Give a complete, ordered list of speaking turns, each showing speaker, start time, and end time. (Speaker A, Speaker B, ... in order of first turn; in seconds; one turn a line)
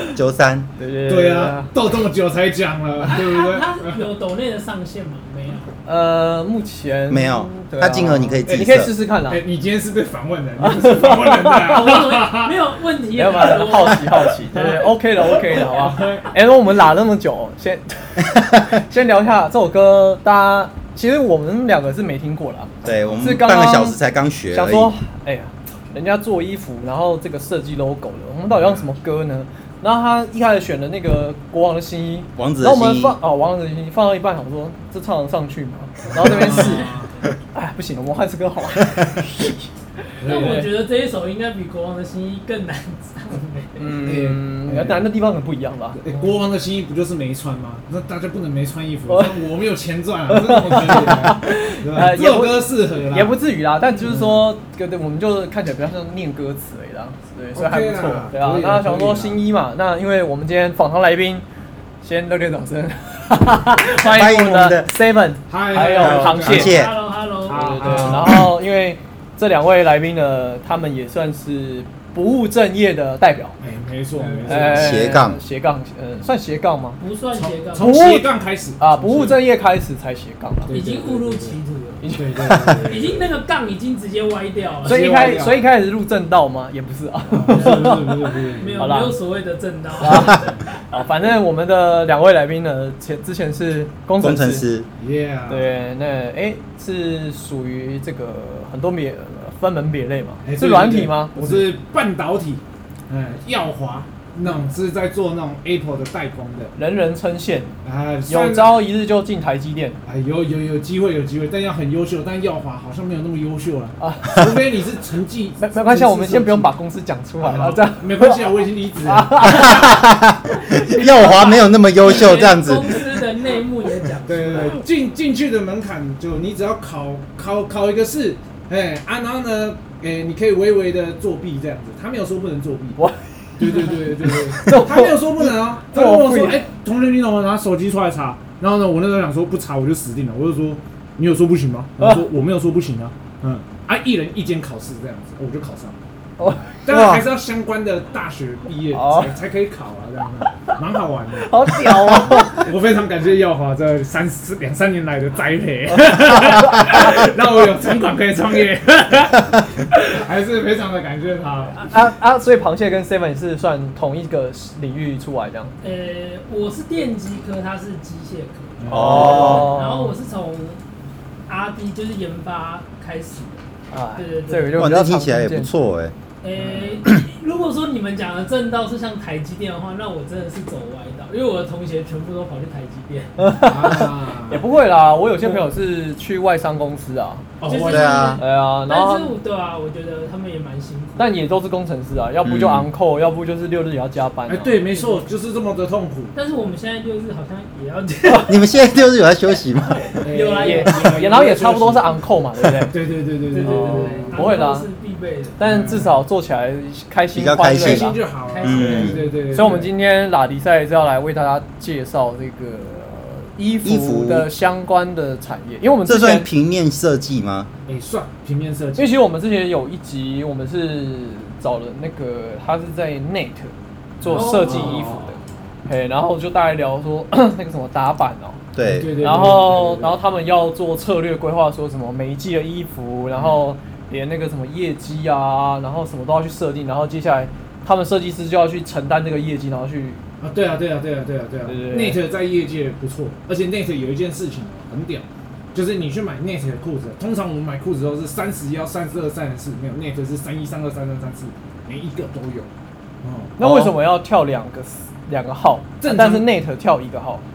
Speaker A: 0.1-0.7
Speaker B: 0.8-1.7
Speaker C: 1.1-4.0
Speaker D: 3.0-5.8
Speaker B: 5.8-9.4
Speaker A: 7.1-8.9
Speaker C: 8.5-12.6
Speaker B: 10.6-11.6
Speaker D: 11.5-14.6
Speaker B: 13.2-24.0
Speaker C: 14.6-14.8
Speaker C: 15.4-16.3
Speaker A: 22.8-24.9
Speaker C: 23.0-23.3
Speaker B: 24.5-36.9
Speaker C: 28.5-28.9
Speaker A: 32.4-33.2
Speaker C: 36.2-37.3
Speaker D: 36.5-37.0
Speaker B: 37.5-40.7
Speaker C: 40.2-40.6
Speaker D: 40.2-43.9
Speaker B: 43.8-46.0
Speaker C: 44.0-45.1
Speaker C: 46.0-53.4
Speaker D: 46.1-46.4
Speaker B: 49.1-49.3
Speaker B: 50.3-61.5
Speaker C: 54.1-54.4
Speaker C: 57.5-59.4
Speaker B: 62.0-66.8
Speaker A: 64.0-64.9
Speaker C: 65.5-66.9
Speaker A: 66.0-66.9
Speaker D: 66.2-68.2
Speaker C: 67.4-68.4
Speaker B: 67.5-73.6
Speaker C: 73.6-74.9
Speaker D: 74.2-74.6
Speaker B: 74.5-77.0
Speaker A: 74.6-75.4
Speaker D: 77.0-78.1
Speaker C: 77.3-79.4
Speaker B: 77.8-78.3
Speaker B: 78.8-80.8
Speaker C: 80.6-81.6
Speaker D: 80.7-82.0
Speaker B: 82.0-82.9
Speaker C: 82.1-83.2
Speaker D: 82.8-85.2
Speaker C: 84.8-85.6
Speaker B: 84.8-89.2
Speaker C: 87.3-88.8
Speaker D: 87.5-90.8
Speaker B: 90.0-94.7
Speaker A: 94.2-94.9
Speaker C: 95.0-95.7
Speaker B: 95.5-101.7
Speaker C: 100.4-106.7
Speaker B: 106.8-107.8
Speaker C: 107.8-108.8
Speaker B: 108.3-110.0
Speaker C: 110.0-116.7
Speaker B: 114.0-114.5
Speaker B: 115.6-120.0
Speaker C: 117.4-119.7
Speaker A: 119.5-123.1
Speaker D: 120.9-124.8
Speaker C: 124.2-133.0
Speaker B: 133.0-136.6
Speaker C: 133.6-146.0
Speaker B: 146.4-146.7
Speaker C: 146.8-161.8
Speaker A: 146.9-147.2
Speaker B: 148.9-149.3
Speaker B: 151.4-152.7
Speaker B: 156.6-157.0
Speaker B: 161.9-165.7
Speaker D: 165.8-170.8
Speaker C: 168.8-169.7
Speaker A: 168.9-169.7
Speaker B: 168.9-170.2
Speaker D: 171.5-173.6
Speaker B: 173.9-175.7
Speaker D: 174.2-174.9
Speaker A: 174.7-176.1
Speaker D: 176.4-183.9
Speaker C: 176.6-177.0
Speaker B: 183.4-187.4
Speaker C: 183.6-184.7
Speaker C: 187.6-188.3
Speaker D: 187.7-191.4
Speaker A: 187.8-188.4
Speaker B: 188.4-189.3
Speaker B: 191.2-194.9
Speaker A: 192.4-192.9
Speaker C: 194.5-196.3
Speaker D: 194.9-195.2
Speaker D: 196.3-198.7
Speaker A: 198.5-200.2
Speaker D: 200.1-201.2
Speaker C: 200.2-202.1
Speaker B: 200.6-203.0
Speaker C: 202.9-204.6
Speaker D: 203.5-205.6
Speaker B: 203.6-204.9
Speaker B: 205.6-208.2
Speaker C: 205.6-206.1
Speaker A: 207.3-209.2
Speaker C: 207.8-209.9
Speaker D: 208.5-209.3
Speaker B: 209.5-216.5
Speaker A: 213.8-214.5
Speaker A: 216.1-217.7
Speaker C: 217.9-219.1
Speaker B: 219.0-228.6
Speaker C: 224.2-225.8
Speaker D: 224.2-225.1
Speaker A: 228.7-229.3
Speaker C: 228.8-230.2
Speaker B: 229.2-240.2
Speaker C: 240.4-252.7
Speaker B: 241.7-242.2
Speaker C: 253.2-253.5
Speaker B: 253.6-257.4
Speaker A: 253.6-253.9
Speaker C: 256.0-256.5